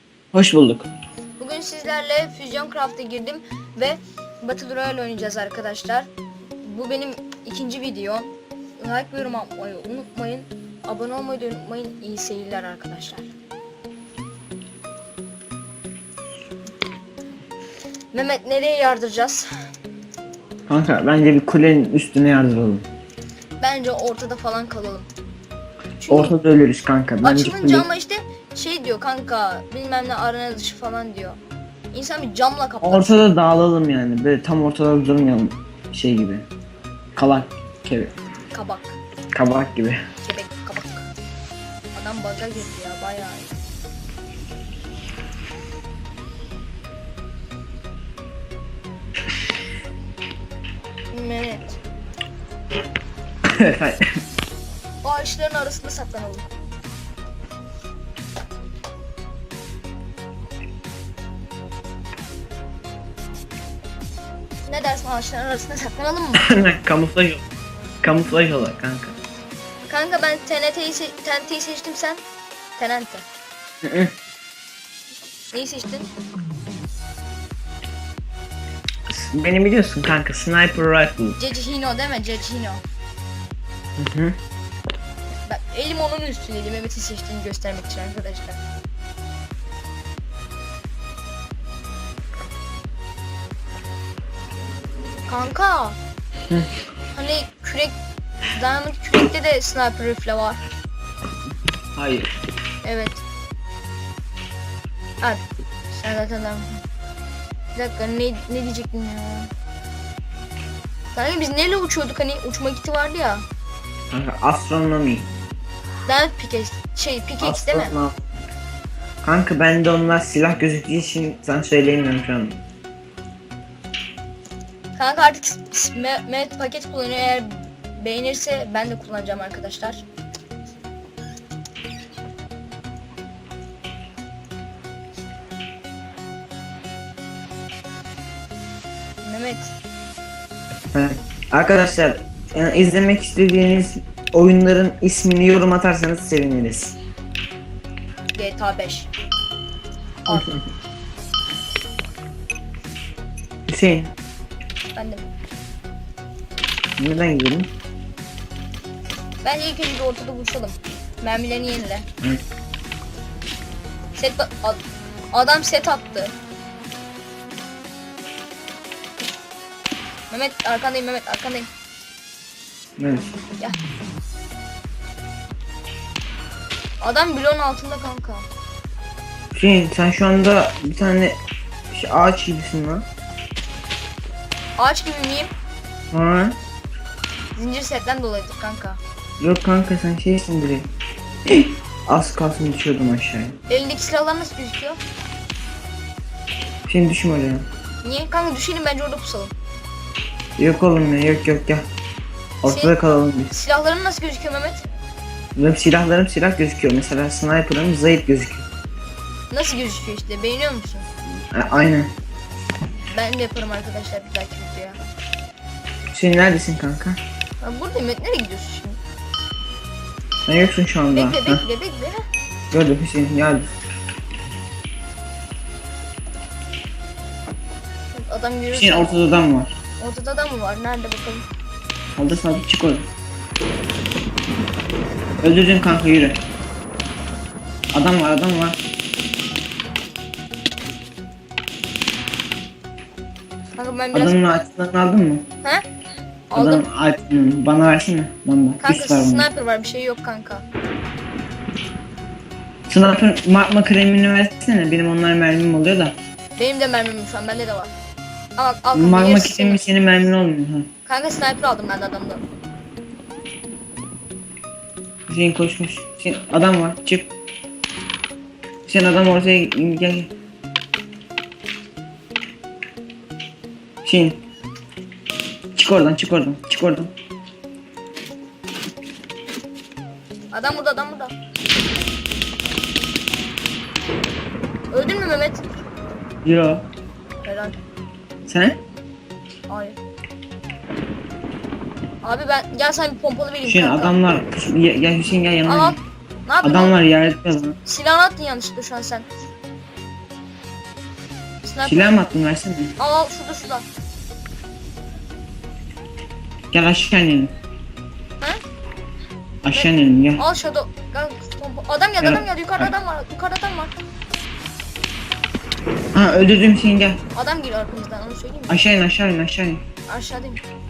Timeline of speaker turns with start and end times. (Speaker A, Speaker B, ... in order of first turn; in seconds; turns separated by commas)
Speaker A: 0.3-0.9, Speaker B: 1.4-6.1, Speaker B: 6.6-13.3, Speaker B: 18.1-19.5, Speaker A: 20.7-22.9, Speaker B: 23.6-25.1, Speaker B: 26.0-26.3, Speaker A: 26.1-27.9, Speaker B: 27.2-31.4, Speaker B: 31.9-33.2, Speaker A: 32.8-36.5, Speaker A: 37.2-38.1, Speaker B: 38.5-39.0, Speaker A: 39.3-40.0, Speaker B: 40.2-41.1, Speaker B: 41.9-43.5, Speaker B: 51.1-51.8, Speaker A: 53.5-54.1, Speaker B: 55.0-56.5, Speaker B: 64.7-66.5, Speaker A: 66.4-67.4, Speaker A: 68.0-69.2, Speaker B: 69.9-72.2, Speaker B: 72.8-73.2, Speaker A: 73.8-74.1, Speaker B: 75.5-76.1, Speaker A: 79.1-81.4, Speaker B: 81.4-82.8, Speaker A: 84.0-84.4, Speaker B: 85.5-88.6, Speaker B: 95.3-96.0, Speaker B: 97.1-98.0, Speaker B: 98.6-100.6, Speaker A: 102.0-102.3, Speaker B: 102.8-103.2, Speaker B: 105.2-106.8, Speaker B: 107.8-109.5, Speaker B: 111.2-113.5, Speaker A: 114.1-115.3, Speaker B: 116.1-117.9, Speaker A: 117.4-118.2, Speaker A: 119.2-122.6, Speaker B: 125.0-130.0, Speaker B: 139.2-139.7, Speaker A: 140.9-146.9, Speaker B: 148.3-149.1, Speaker B: 150.3-150.5, Speaker A: 150.3-150.6, Speaker A: 153.7-154.1, Speaker B: 154.9-155.3, Speaker A: 157.0-157.7, Speaker B: 159.4-162.1, Speaker B: 164.2-164.8, Speaker B: 165.3-166.3, Speaker B: 170.3-171.7, Speaker A: 173.0-173.3, Speaker B: 177.0-178.5, Speaker A: 179.5-181.4, Speaker A: 181.9-183.1, Speaker B: 184.8-185.5, Speaker A: 186.1-186.6, Speaker B: 187.6-189.0, Speaker A: 189.4-190.9, Speaker A: 191.5-193.6, Speaker B: 193.7-195.0, Speaker A: 196.9-197.6, Speaker B: 198.0-199.5, Speaker A: 200.6-201.8, Speaker A: 202.6-203.5, Speaker B: 202.6-202.9, Speaker B: 203.5-204.8, Speaker A: 205.6-208.7, Speaker B: 209.5-211.1, Speaker A: 211.5-212.1, Speaker B: 213.1-215.0, Speaker A: 216.1-217.2, Speaker B: 217.6-219.0, Speaker A: 220.5-221.6, Speaker B: 221.1-222.2, Speaker A: 222.7-223.7, Speaker B: 228.1-229.2, Speaker A: 228.7-229.7, Speaker B: 230.0-231.4, Speaker A: 232.2-233.1, Speaker A: 235.4-236.4, Speaker A: 237.9-238.8, Speaker B: 243.8-244.4, Speaker A: 244.1-245.4, Speaker B: 246.5-246.8, Speaker A: 246.6-249.5, Speaker B: 248.8-250.6, Speaker A: 252.9-256.1, Speaker B: 256.6-257.9, Speaker B: 258.6-259.9, Speaker A: 258.9-260.9, Speaker B: 261.1-262.4, Speaker A: 265.3-267.3, Speaker A: 268.9-270.3, Speaker A: 274.0-274.4, Speaker A: 275.8-277.1, Speaker B: 280.5-281.3, Speaker B: 284.9-285.6, Speaker A: 286.4-286.8, Speaker B: 287.4-287.8, Speaker A: 288.5-288.8, Speaker B: 289.7-290.0, Speaker B: 292.2-294.2, Speaker A: 293.6-296.0, Speaker B: 295.6-297.0, Speaker A: 296.6-297.8, Speaker B: 297.9-299.3, Speaker B: 301.6-302.2, Speaker A: 301.8-302.9, Speaker B: 303.0-303.9, Speaker A: 306.7-307.5, Speaker A: 309.6-310.4, Speaker B: 309.7-313.9, Speaker A: 312.2-312.9, Speaker A: 316.1-317.2, Speaker B: 317.3-318.8, Speaker A: 318.7-319.8, Speaker B: 320.1-320.6